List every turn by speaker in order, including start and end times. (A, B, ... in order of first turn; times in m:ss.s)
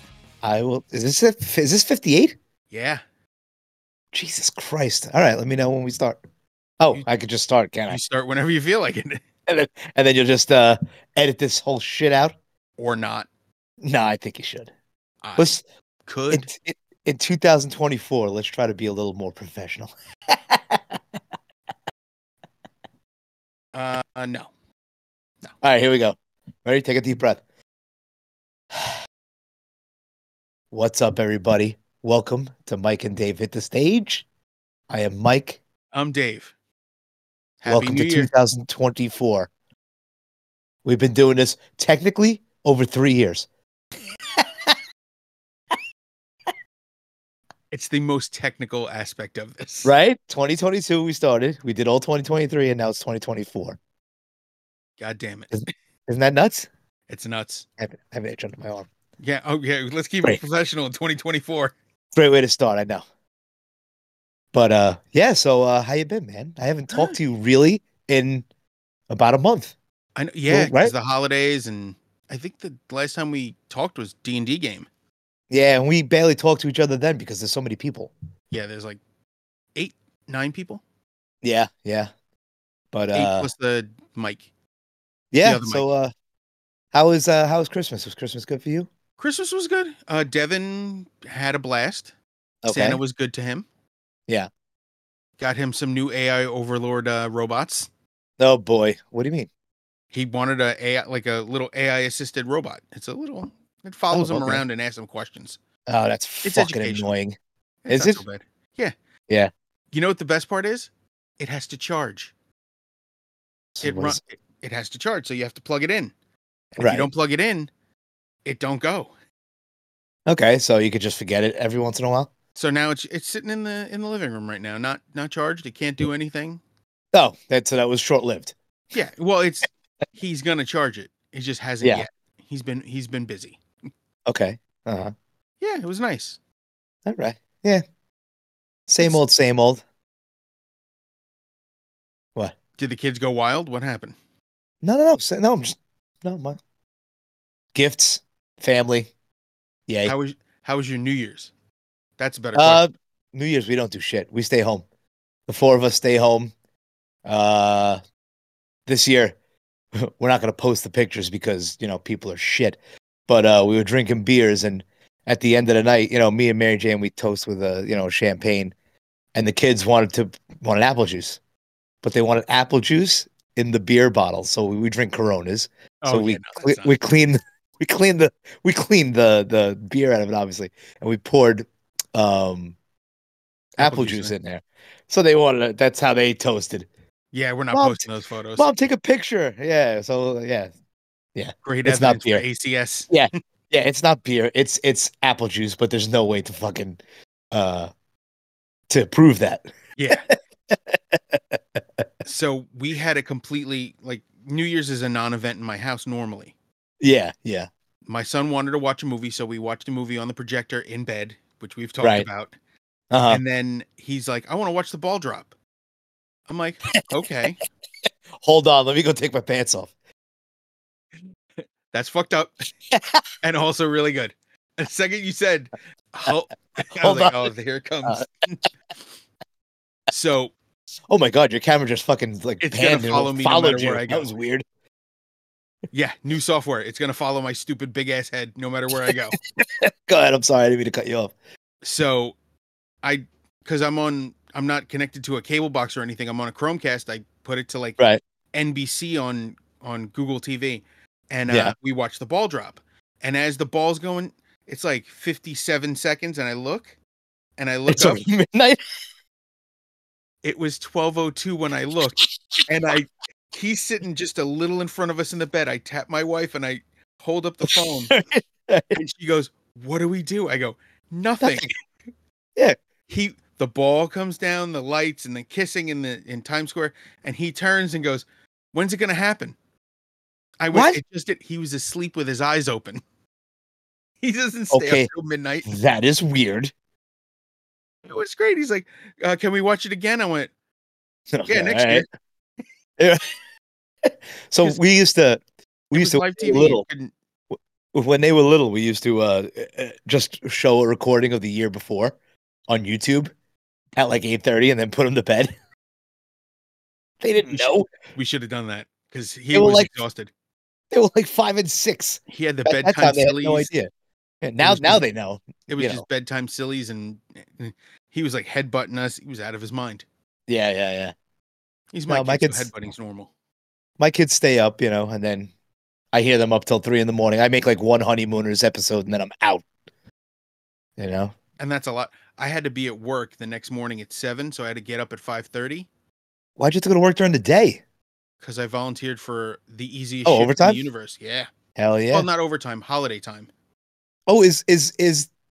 0:00.4-0:02.3 A
0:02.7-0:03.0 B
0:04.1-0:06.2 A
0:06.8-0:08.0 A
0:07.9-0:09.2 B
0:09.5-0:12.3 A
0:12.8-0:13.3 B
0:13.8-0:14.7 A
0:15.2-0:15.5 B
0:15.4-0:15.6 A
0:16.0-0:16.5 B
0:16.3-0:21.0 A
0:23.7-0:24.5 B
0:25.6-0:27.4 A
0:30.7-0:34.2 A
0:34.9-0:35.6 A
0:35.9-0:36.5 B
0:37.6-0:38.3 B
0:37.7-0:39.5 A
0:40.8-0:43.5 A
0:44.4-0:44.7 A
0:47.7-0:49.9 B
0:49.8-0:53.8 A
0:55.0-0:55.7 B
0:56.1-0:56.7 A
0:57.1-0:57.6 B
0:57.8-0:58.9 A
0:59.2-1:01.7 B
1:02.1-1:03.0 A
1:04.5-1:08.4 A
1:06.9-1:07.2 B
1:09.1-1:09.7 A
1:10.2-1:14.9 B
1:10.5-1:10.9 A
1:15.5-1:18.1 A
1:18.5-1:19.0 B
1:19.7-1:20.8 B
1:21.4-1:22.1 A
1:22.9-1:23.5 A
1:23.1-1:24.5 B
1:25.3-1:26.1 A
1:25.4-1:25.9 B
1:26.9-1:28.9 A
1:29.2-1:32.1 B
1:32.6-1:33.0 A
1:32.7-1:33.6 B
1:35.4-1:37.9 B
1:38.4-1:39.5 A
1:40.1-1:45.6 B
1:44.1-1:44.6 A
1:45.9-1:47.4 A
1:46.4-1:47.1 B
1:47.8-1:48.9 B
1:47.9-1:48.2 A
1:49.9-1:52.3 B
1:53.7-1:54.2 A
1:53.8-1:56.1 B
1:56.8-1:57.1 A
1:56.8-1:57.7 B
1:58.4-1:59.1 B
2:00.3-2:02.3 A
2:02.6-2:06.6 B
2:07.1-2:08.5 A
2:08.9-2:13.6 B
2:14.2-2:15.1 A
2:15.6-2:16.4 B
2:17.0-2:17.8 A
2:18.9-2:19.8 A
2:22.8-2:24.1 B
2:24.8-2:26.6 A
2:27.7-2:29.1 A
2:29.9-2:30.1 A
2:30.0-2:31.5 B
2:32.2-2:32.8 B
2:32.5-2:34.8 A
2:35.5-2:36.5 A
2:37.2-2:38.0 A
2:38.9-2:39.4 A
2:39.9-2:48.7 A
2:49.3-2:51.4 A
2:52.0-3:02.8 A
2:56.0-2:57.0 B
3:03.8-3:06.9 A
3:03.8-3:04.3 B
3:07.3-3:08.9 B
3:07.7-3:08.0 A
3:08.6-3:10.7 A
3:11.3-3:12.4 A
3:11.6-3:13.1 B
3:13.1-3:17.0 A
3:17.5-3:17.9 A
3:18.9-3:19.6 A
3:20.0-3:20.2 B
3:20.7-3:21.8 A
3:22.2-3:26.5 B
3:27.0-3:27.7 A
3:28.1-3:32.5 B
3:32.0-3:32.3 A
3:33.1-3:33.4 A
3:33.3-3:35.5 B
3:36.5-3:37.6 B
3:38.4-3:39.9 A
3:41.9-3:42.5 B
3:42.9-3:43.2 A
3:43.4-3:48.6 B
3:47.0-3:47.4 A
3:50.1-3:50.5 B
3:51.1-3:54.6 A
3:52.6-3:54.3 B
3:55.9-3:59.4 B
3:59.0-4:01.3 A
4:01.8-4:02.4 B
4:03.0-4:08.0 B
4:08.5-4:17.0 B
4:11.5-4:11.7 A
4:17.6-4:18.2 B
4:17.9-4:18.8 A
4:20.4-4:28.1 B
4:22.2-4:22.6 A
4:28.1-4:29.0 A
4:28.9-4:31.7 B
4:31.4-4:31.7 A
4:33.1-4:39.6 B
4:40.6-4:43.0 B
4:40.7-4:41.0 A
4:44.2-4:45.7 B
4:44.7-4:45.1 A
4:45.6-4:46.7 A
4:48.1-4:50.5 B
4:51.3-4:52.0 A
4:51.4-4:52.1 B
4:54.1-4:56.8 A
4:55.9-4:57.1 B
4:57.9-5:02.2 A
5:02.7-5:03.3 A
5:04.0-5:05.5 A
5:07.2-5:07.9 A
5:07.4-5:10.3 B
5:09.5-5:09.9 A
5:10.9-5:13.9 A
5:12.3-5:13.7 B
5:14.4-5:16.0 A
5:14.6-5:15.0 B
5:15.7-5:20.0 B
5:20.5-5:21.1 A
5:21.9-5:23.3 B
5:22.1-5:22.7 A
5:24.0-5:25.5 A
5:26.1-5:29.6 A
5:31.0-5:31.3 A
5:31.6-5:35.9 B
5:36.6-5:37.8 A
5:38.4-5:41.5 B
5:40.2-5:40.8 A
5:41.8-5:42.3 A
5:42.1-5:43.5 B
5:44.3-5:45.3 A